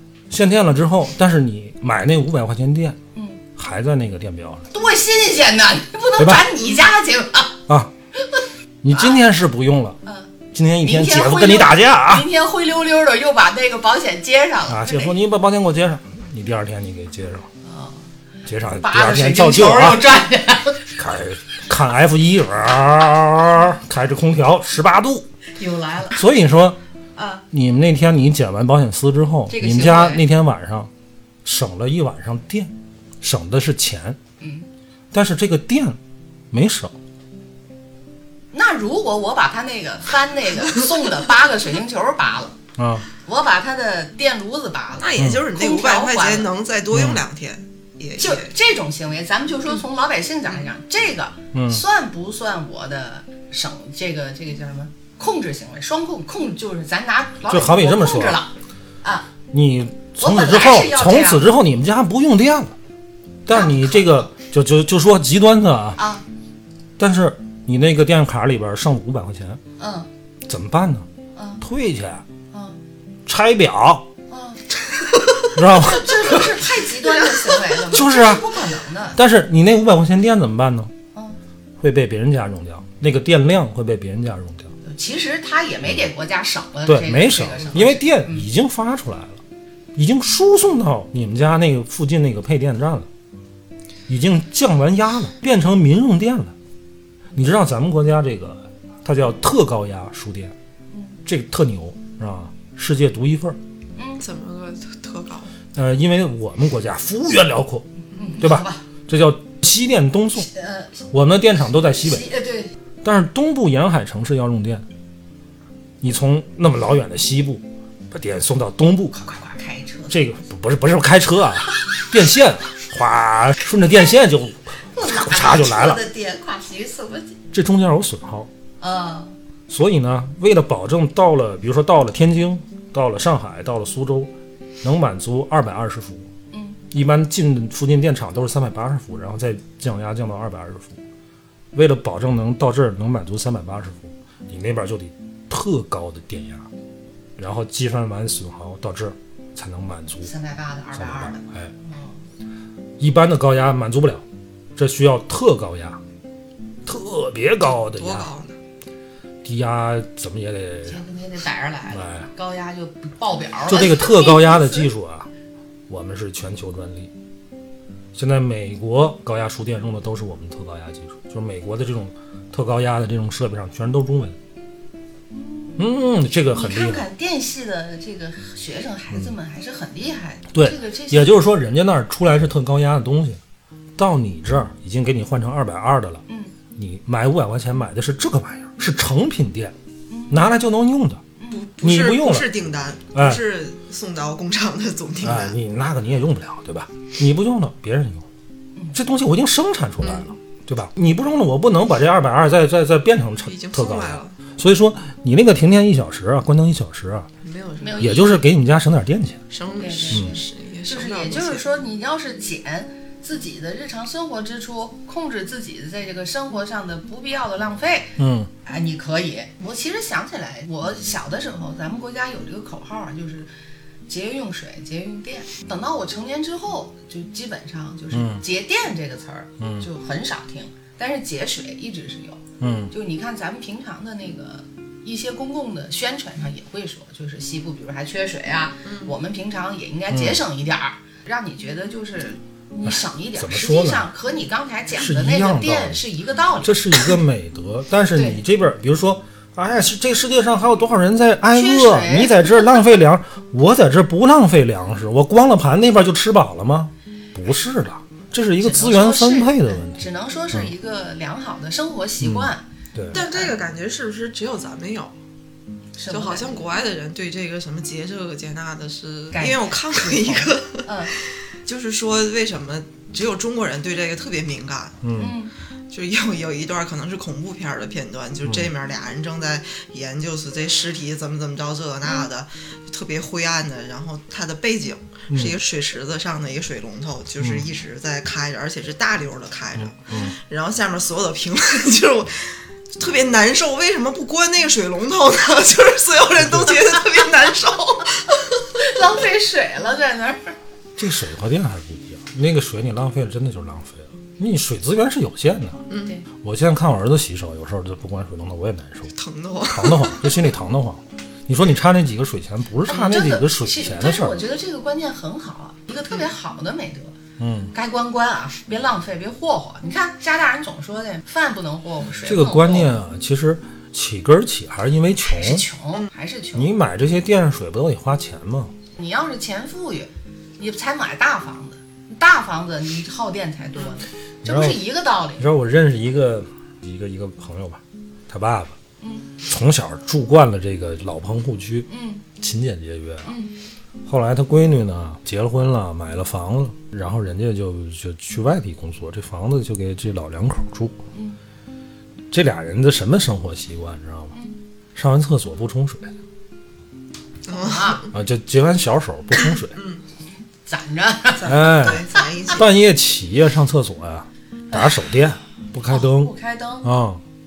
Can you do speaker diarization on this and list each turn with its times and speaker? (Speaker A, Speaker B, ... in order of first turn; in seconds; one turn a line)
Speaker A: 0.3-3.0
Speaker B: 3.1-3.4
Speaker A: 3.5-4.7
Speaker B: 4.7-7.6
Speaker A: 6.2-6.5
Speaker B: 8.2-9.2
Speaker A: 8.8-10.0
Speaker B: 10.0-15.2
Speaker A: 10.5-12.3
Speaker A: 14.7-17.5
Speaker B: 17.6-18.1
Speaker A: 18.4-20.0
Speaker B: 18.8-20.9
Speaker A: 20.9-25.3
Speaker B: 25.6-26.2
Speaker A: 26.1-26.8
Speaker B: 27.1-27.4
Speaker A: 27.5-30.9
Speaker B: 29.5-30.2
Speaker A: 31.4-34.2
Speaker B: 34.4-34.7
Speaker A: 35.1-36.0
Speaker A: 36.5-37.0
Speaker B: 38.5-42.6
Speaker A: 42.8-43.0
Speaker B: 43.2-46.5
Speaker C: 45.0-48.5
Speaker A: 45.2-45.5
Speaker A: 46.9-47.2
Speaker B: 48.2-59.3
Speaker A: 51.5-51.8
Speaker A: 57.5-58.4
Speaker A: 59.5-62.7
Speaker B: 60.2-61.5
Speaker A: 63.5-66.0
Speaker B: 63.5-64.3
Speaker B: 66.0-66.2
Speaker A: 67.0-69.6
Speaker B: 69.8-70.1
Speaker A: 70.5-71.0
Speaker B: 71.3-71.6
Speaker A: 71.6-72.2
Speaker B: 72.5-72.8
Speaker A: 73.2-74.1
Speaker B: 74.3-74.6
Speaker A: 75.5-76.5
Speaker B: 75.7-79.2
Speaker A: 77.8-78.5
Speaker A: 79.1-80.9
Speaker B: 81.1-81.4
Speaker A: 81.8-84.7
Speaker B: 84.8-88.5
Speaker A: 86.8-89.4
Speaker A: 89.9-93.1
Speaker A: 94.1-96.5
Speaker A: 97.3-100.5
Speaker B: 100.9-101.2
Speaker A: 101.2-103.6
Speaker B: 104.0-104.2
Speaker C: 104.2-105.5
Speaker A: 105.7-110.5
Speaker B: 108.1-108.8
Speaker B: 110.4-111.0
Speaker A: 111.1-112.2
Speaker B: 112.0-112.7
Speaker A: 113.0-114.8
Speaker A: 116.0-119.1
Speaker B: 119.1-120.2
Speaker A: 120.1-126.0
Speaker B: 124.9-127.4
Speaker A: 127.5-128.5
Speaker B: 128.8-129.3
Speaker A: 129.7-136.3
Speaker B: 136.5-136.8
Speaker A: 136.9-141.0
Speaker A: 141.7-146.7
Speaker A: 147.4-150.3
Speaker B: 150.2-152.1
Speaker A: 150.9-151.7
Speaker A: 153.0-154.2
Speaker A: 154.8-156.0
Speaker A: 156.8-158.3
Speaker C: 157.6-158.6
Speaker A: 159.4-161.0
Speaker B: 160.8-164.9
Speaker A: 161.9-162.3
Speaker A: 163.7-165.3
Speaker A: 165.9-167.1
Speaker A: 168.1-174.4
Speaker B: 175.3-175.9
Speaker A: 175.8-177.1
Speaker B: 176.5-181.4
Speaker A: 180.5-183.4
Speaker A: 184.0-186.2
Speaker B: 186.3-186.5
Speaker A: 186.8-189.7
Speaker B: 190.1-190.5
Speaker A: 190.3-191.2
Speaker B: 191.4-191.6
Speaker C: 191.5-195.6
Speaker A: 191.8-192.5
Speaker A: 193.1-193.4
Speaker A: 195.2-198.2
Speaker A: 198.9-207.3
Speaker C: 200.0-200.3
Speaker C: 203.4-204.4
Speaker C: 207.4-208.2
Speaker B: 207.8-208.4
Speaker A: 208.0-209.4
Speaker C: 209.5-211.6
Speaker B: 209.7-223.5
Speaker A: 218.2-218.5
Speaker B: 224.1-247.2
Speaker A: 228.1-228.4
Speaker A: 229.6-229.8
Speaker A: 232.6-232.9
Speaker C: 238.8-239.1
Speaker A: 240.1-240.4
Speaker A: 242.8-244.1
Speaker A: 244.9-246.0
Speaker A: 246.6-260.7
Speaker B: 248.1-248.4
Speaker B: 251.5-252.9
Speaker B: 258.6-263.6
Speaker A: 262.2-263.2
Speaker C: 263.1-265.1
Speaker B: 266.0-266.6
Speaker C: 266.1-275.1
Speaker B: 269.3-271.1
Speaker A: 275.0-275.4
Speaker B: 275.1-275.5
Speaker C: 275.9-298.5
Speaker A: 285.3-285.6
Speaker A: 287.4-287.6
Speaker A: 289.8-290.3
Speaker A: 296.4-296.8
Speaker B: 298.7-300.6
Speaker A: 301.0-305.8
Speaker C: 305.9-306.1
Speaker A: 306.3-309.1
Speaker C: 309.1-310.2
Speaker A: 309.7-314.4
Speaker B: 312.9-317.1
Speaker A: 317.4-317.7
Speaker B: 317.7-323.0
Speaker A: 322.2-325.6
Speaker B: 325.2-326.7
Speaker A: 326.5-328.7
Speaker B: 328.9-335.5
Speaker A: 334.4-334.8
Speaker A: 335.4-338.8
Speaker B: 339.0-339.3
Speaker A: 339.4-341.9
Speaker B: 341.9-342.2
Speaker A: 342.4-343.3
Speaker B: 343.2-343.5
Speaker A: 344.0-351.0
Speaker B: 351.1-351.4
Speaker A: 352.3-354.3
Speaker B: 354.3-354.6
Speaker A: 354.9-356.1
Speaker C: 357.5-358.1
Speaker B: 357.5-358.1
Speaker A: 358.1-359.8
Speaker C: 359.7-360.0
Speaker B: 360.6-362.2
Speaker C: 361.3-362.7
Speaker A: 361.5-367.2
Speaker B: 364.7-365.0
Speaker B: 365.9-366.9